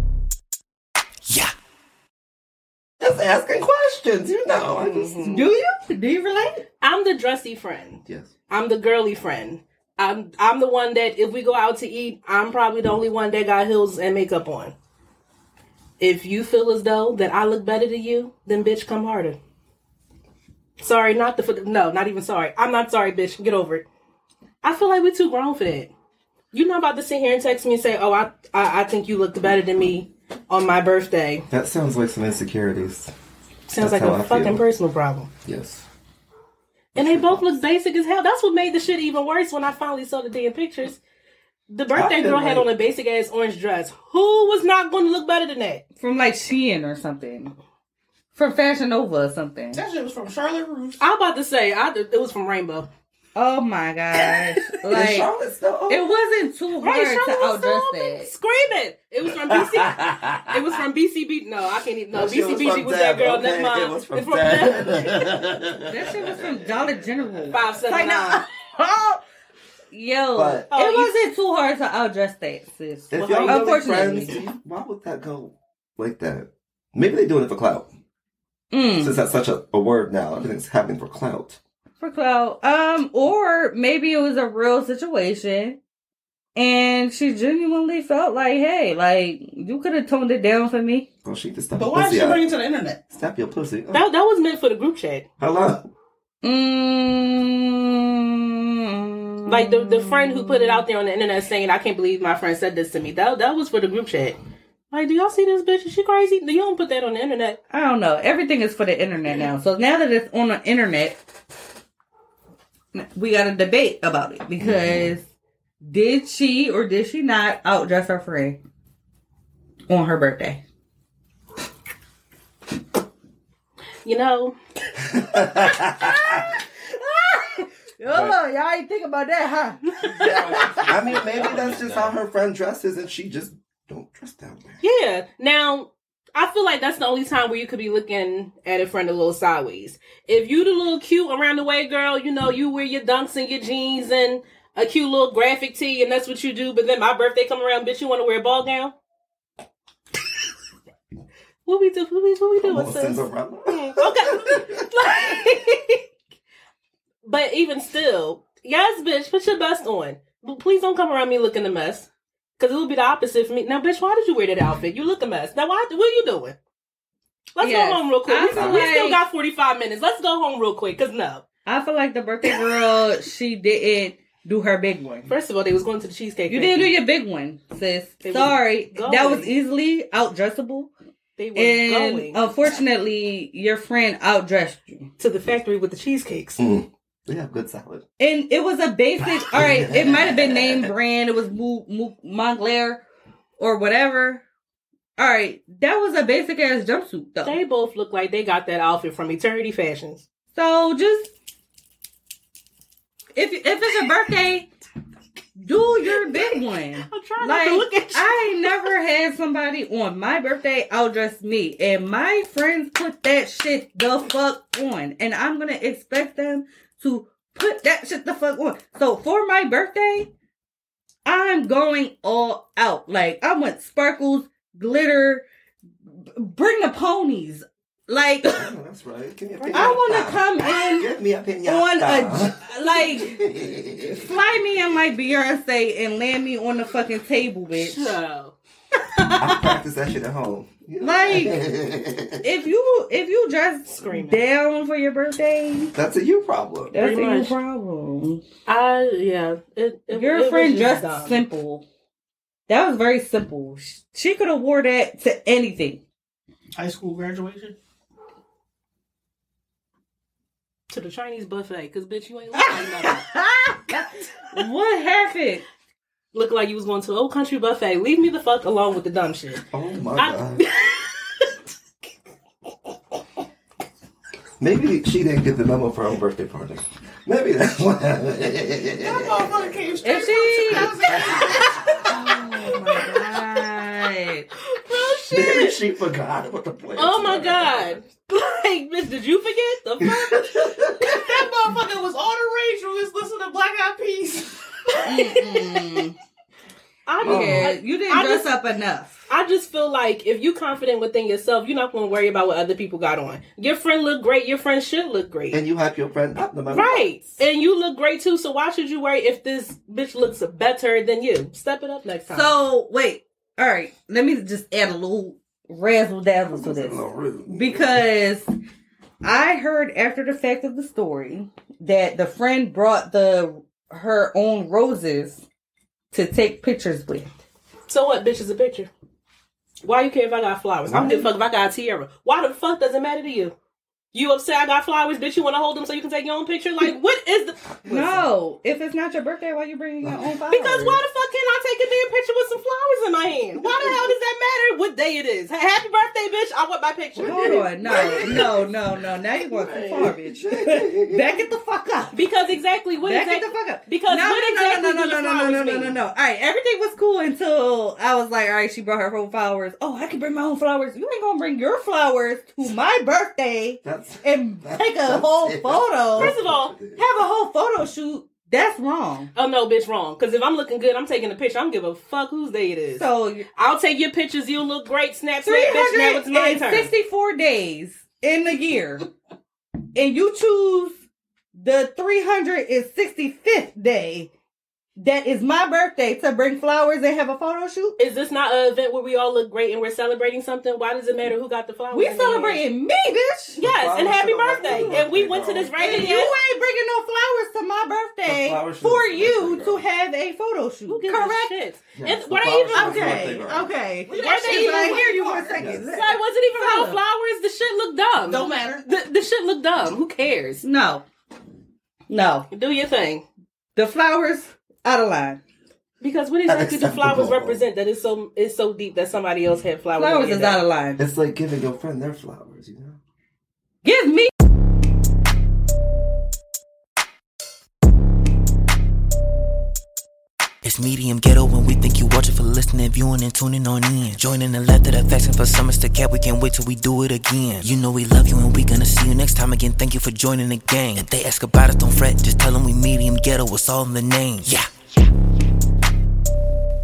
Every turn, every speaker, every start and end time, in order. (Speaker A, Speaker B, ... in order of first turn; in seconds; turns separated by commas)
Speaker A: 1.3-1.5, Speaker B: 3.0-5.3, Speaker C: 4.7-5.5, Speaker D: 5.1-6.6, Speaker C: 6.8-14.7, Speaker C: 16.0-19.4, Speaker C: 20.8-23.8, Speaker C: 24.6-25.9, Speaker C: 26.5-31.4, Speaker B: 31.5-33.1, Speaker C: 33.7-35.3, Speaker B: 33.8-34.6, Speaker B: 35.4-35.9, Speaker C: 36.9-41.0, Speaker B: 37.0-37.5, Speaker C: 41.7-45.8, Speaker B: 41.9-42.7, Speaker D: 46.0-47.5, Speaker D: 48.3-49.8, Speaker E: 49.7-51.0, Speaker C: 51.0-52.9, Speaker D: 53.4-55.3, Speaker B: 54.9-56.1, Speaker D: 55.9-58.3, Speaker C: 56.8-65.3, Speaker B: 59.5-60.5, Speaker B: 62.1-66.7, Speaker D: 65.9-69.2, Speaker C: 67.5-68.4, Speaker D: 69.9-74.3, Speaker B: 70.3-70.7, Speaker C: 70.7-71.2, Speaker B: 73.1-77.9, Speaker C: 73.1-74.4, Speaker D: 78.7-79.2, Speaker B: 78.9-81.6, Speaker D: 82.0-85.8, Speaker D: 86.5-91.0, Speaker B: 91.2-92.5, Speaker E: 91.8-93.0, Speaker B: 93.1-94.0, Speaker C: 93.9-95.2, Speaker B: 95.4-95.9, Speaker D: 96.4-100.8, Speaker C: 99.5-104.4, Speaker C: 104.9-107.6, Speaker D: 107.7-111.2, Speaker D: 112.9-115.2, Speaker B: 114.6-115.2, Speaker D: 115.8-118.6, Speaker D: 119.9-120.6, Speaker C: 124.0-124.6, Speaker B: 125.0-126.1, Speaker D: 125.5-131.1, Speaker E: 130.2-130.7, Speaker B: 130.5-134.8, Speaker C: 134.8-148.9, Speaker C: 151.7-156.0, Speaker B: 152.6-154.8, Speaker C: 157.2-166.6, Speaker C: 167.6-171.4, Speaker D: 167.6-169.2, Speaker B: 168.5-168.9, Speaker D: 171.6-175.3, Speaker C: 175.3-176.9, Speaker D: 176.5-180.9, Speaker C: 178.2-179.5, Speaker C: 181.4-182.5, Speaker D: 181.5-185.1, Speaker C: 185.2-186.6, Speaker B: 186.6-188.0, Speaker D: 188.2-193.0, Speaker B: 189.4-190.9, Speaker D: 193.6-194.4, Speaker D: 195.2-197.6, Speaker C: 197.4-200.2, Speaker D: 200.5-201.3, Speaker D: 203.3-204.7, Speaker D: 205.6-220.3, Speaker C: 206.1-208.9, Speaker D: 221.2-225.4, Speaker D: 226.3-228.5, Speaker B: 228.5-234.2, Speaker C: 229.6-230.2, Speaker D: 229.7-231.1, Speaker D: 231.6-233.6, Speaker D: 234.1-238.2, Speaker C: 237.7-238.5, Speaker B: 239.3-242.4, Speaker D: 241.0-241.6, Speaker D: 242.4-245.9, Speaker C: 243.9-244.5, Speaker B: 245.9-246.9, Speaker D: 246.9-248.4, Speaker C: 246.9-247.6, Speaker C: 248.7-251.4, Speaker D: 250.1-251.8, Speaker D: 252.7-256.0, Speaker E: 256.8-257.8, Speaker C: 260.9-263.3, Speaker D: 262.5-265.6, Speaker C: 266.3-269.6, Speaker B: 269.7-270.6, Speaker C: 270.1-270.9, Speaker B: 274.6-279.7, Speaker E: 279.0-281.9, Speaker D: 280.0-281.0, Speaker B: 281.1-281.4, Speaker D: 282.0-284.4, Speaker C: 284.7-285.8, Speaker B: 285.3-287.9, Speaker C: 286.9-291.2, Speaker B: 290.0-291.4, Speaker E: 291.2-294.6, Speaker D: 295.1-296.1, Speaker C: 295.1-296.0, Speaker C: 297.1-298.5, Speaker D: 297.2-299.2, Speaker B: 297.2-297.7, Speaker C: 299.3-305.6, Speaker B: 305.5-307.3, Speaker C: 306.7-312.6, Speaker D: 312.3-318.4, Speaker B: 316.5-318.1, Speaker D: 319.2-325.4, Speaker D: 326.1-327.3, Speaker C: 327.9-328.9, Speaker C: 329.8-333.5, Speaker B: 330.9-331.3, Speaker C: 334.1-337.6, Speaker B: 337.8-338.2, Speaker D: 337.9-341.0, Speaker B: 340.0-340.4, Speaker C: 340.5-348.4, Speaker B: 343.6-343.9, Speaker B: 347.2-348.8, Speaker D: 347.2-352.1, Speaker B: 349.4-351.4, Speaker C: 352.1-356.0, Speaker D: 353.0-366.4, Speaker B: 363.8-367.0, Speaker C: 366.1-366.8, Speaker D: 366.9-369.3, Speaker C: 369.3-376.9, Speaker D: 372.9-373.5, Speaker D: 375.4-379.0, Speaker D: 379.9-381.0, Speaker D: 381.5-384.3, Speaker D: 385.0-388.0, Speaker C: 388.0-392.6, Speaker D: 391.9-393.6, Speaker C: 393.6-396.4, Speaker B: 393.6-396.0, Speaker D: 395.7-401.5, Speaker B: 398.2-399.9, Speaker C: 400.9-403.2, Speaker B: 401.9-403.7, Speaker D: 402.7-407.0, Speaker E: 404.1-405.6, Speaker C: 404.1-405.1, Speaker B: 405.4-405.9, Speaker C: 405.8-410.6, Speaker D: 408.3-408.8, Speaker D: 410.6-411.0, Speaker D: 412.1-412.5, Speaker C: 412.5-413.2, Speaker D: 413.8-415.4, Speaker C: 416.0-420.6, Speaker B: 416.4-417.6, Speaker D: 420.0-421.0, Speaker B: 421.0-423.0, Speaker D: 423.8-424.3, Speaker A: 430.6-444.7